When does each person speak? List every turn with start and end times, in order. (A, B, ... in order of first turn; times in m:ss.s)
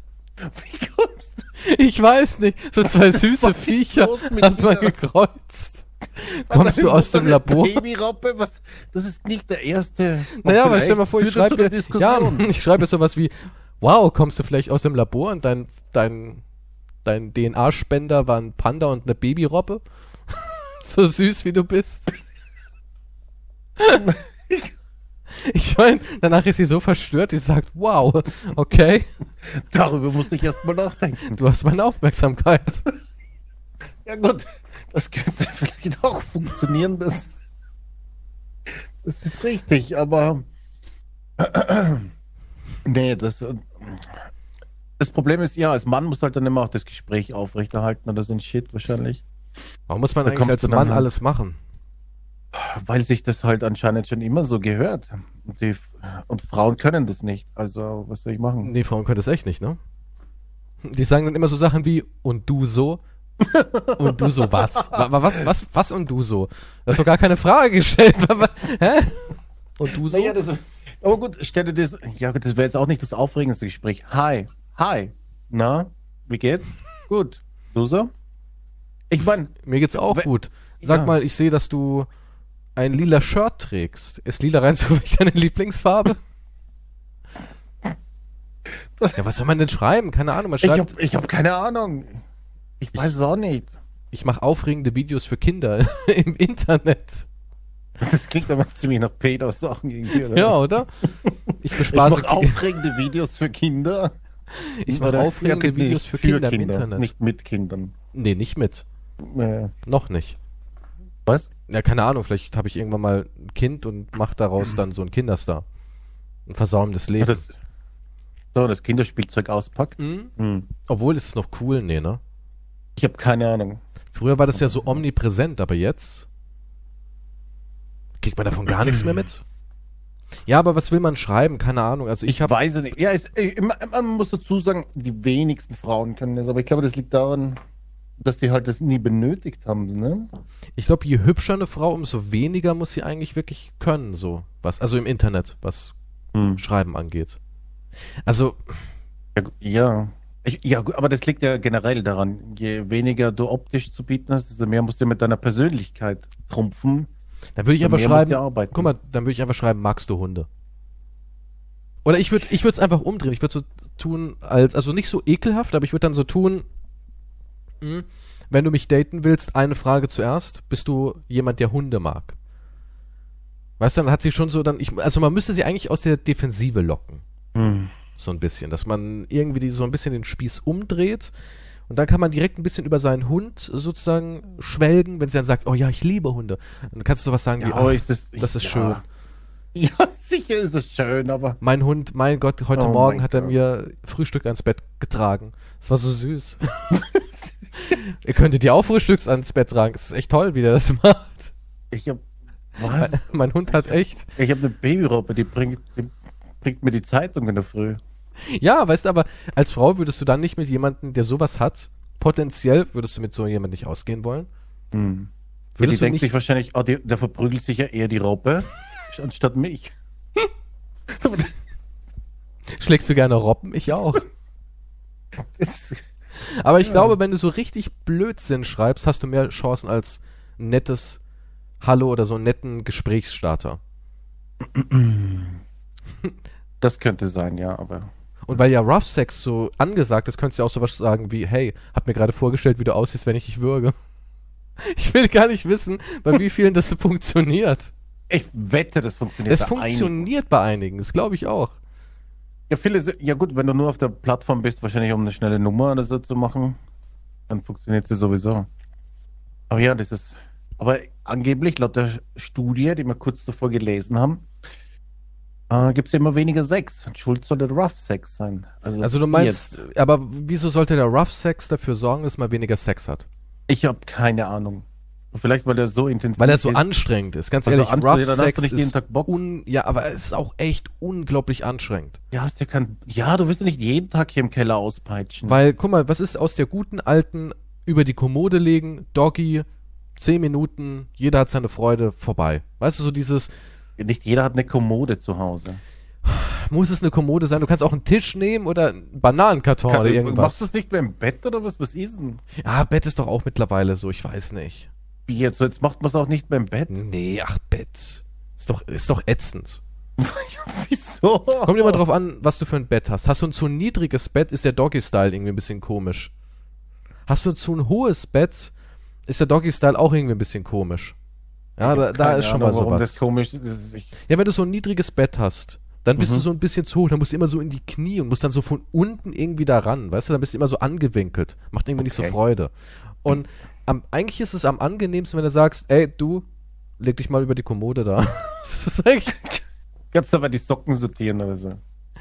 0:00.4-0:01.5 A
0:01.6-0:07.8 B
0:03.0-0:05.0 A
0:06.5-0:12.5 A
0:10.3-0:16.4 B
0:17.0-0:22.1 B
0:23.8-0:24.0 B
0:23.9-0:24.7 A
0:25.4-0:29.1 B
0:29.5-0:31.4 A
0:31.3-0:32.8 B
0:34.0-0:37.3 A
0:39.0-0:40.5 A
0:41.4-0:42.1 A
0:42.8-0:44.2 A
0:45.0-0:49.2 A
0:49.9-0:51.6 B
0:50.3-0:51.1 A
0:52.5-0:58.7 A
0:58.6-0:59.8 B
1:00.8-1:03.0 B
1:03.4-1:05.1 A
1:04.0-1:10.4 B
1:10.0-1:18.1 A
1:19.1-1:20.3 A
1:19.6-1:22.1 B
1:20.8-1:21.1 A
1:22.8-1:26.2 B
1:29.2-1:30.9 B
1:30.6-1:32.2 A
1:32.8-1:33.7 A
1:34.1-1:37.3 B
1:38.0-1:40.6 A
1:40.1-1:41.0 B
1:41.2-1:44.1 A
1:41.6-1:42.7 B
1:44.5-1:47.1 B
1:44.9-1:47.9 A
1:48.1-1:48.8 B
1:49.2-1:49.7 A
1:49.9-1:50.4 B
1:51.7-1:55.6 B
1:56.5-1:57.4 B
1:57.2-1:57.5 A
1:58.5-2:00.7 A
2:00.0-2:00.3 B
2:00.9-2:02.2 B
2:03.0-2:03.8 A
2:04.1-2:06.3 B
2:04.6-2:05.0 A
2:08.2-2:09.4 B
2:08.7-2:09.2 A
2:10.5-2:12.5 B
2:12.3-2:17.6 A
2:18.2-2:20.3 A
2:20.8-2:26.0 B
2:26.3-2:26.6 A
2:26.6-2:27.4 B
2:28.3-2:28.7 B
2:29.4-2:37.1 A
2:37.6-2:40.5 B
2:37.8-2:38.9 A
2:42.0-2:46.7 B
2:47.8-2:52.4 B
2:53.8-2:57.2 B
2:57.5-2:57.9 A
2:58.2-3:01.3 B
3:01.9-3:09.0 B
3:07.6-3:09.0 A
3:09.8-3:11.6 A
3:11.6-3:16.9 B
3:12.8-3:13.6 A
3:16.9-3:17.5 A
3:17.8-3:21.5 B
3:21.9-3:22.2 A
3:22.8-3:28.0 A
3:22.9-3:24.3 B
3:28.5-3:34.5 B
3:34.9-3:39.9 A
3:35.8-3:36.3 B
3:41.1-3:41.6 A
3:42.7-3:44.2 B
3:45.4-3:46.0 A
3:46.5-3:51.2 B
3:46.8-3:47.1 A
3:51.8-3:53.8 B
3:54.6-3:55.6 A
3:56.8-3:58.1 A
3:58.5-4:04.0 B
4:04.8-4:07.9 B
4:08.3-4:10.2 A
4:09.5-4:11.8 B
4:12.7-4:16.8 A
4:17.5-4:18.7 A
4:19.7-4:24.5 A
4:25.7-4:29.6 A
4:29.0-4:33.3 B
4:33.7-4:36.9 A
4:36.4-4:42.2 B
4:37.6-4:39.4 A
4:42.3-4:45.6 A
4:45.4-4:49.7 B
4:50.2-4:53.5 B
4:54.0-4:55.8 A
4:56.2-5:00.7 B
4:59.9-5:02.4 A
5:02.6-5:04.9 B
5:05.3-5:06.9 A
5:06.9-5:09.8 B
5:10.2-5:12.0 A
5:11.6-5:16.3 B
5:17.3-5:18.7 B
5:19.3-5:21.2 B
5:21.8-5:23.2 B
5:21.8-5:24.1 A
5:24.3-5:36.4 B
5:26.2-5:26.5 A
5:32.0-5:32.4 A
5:37.0-5:39.5 B
5:40.1-5:41.8 A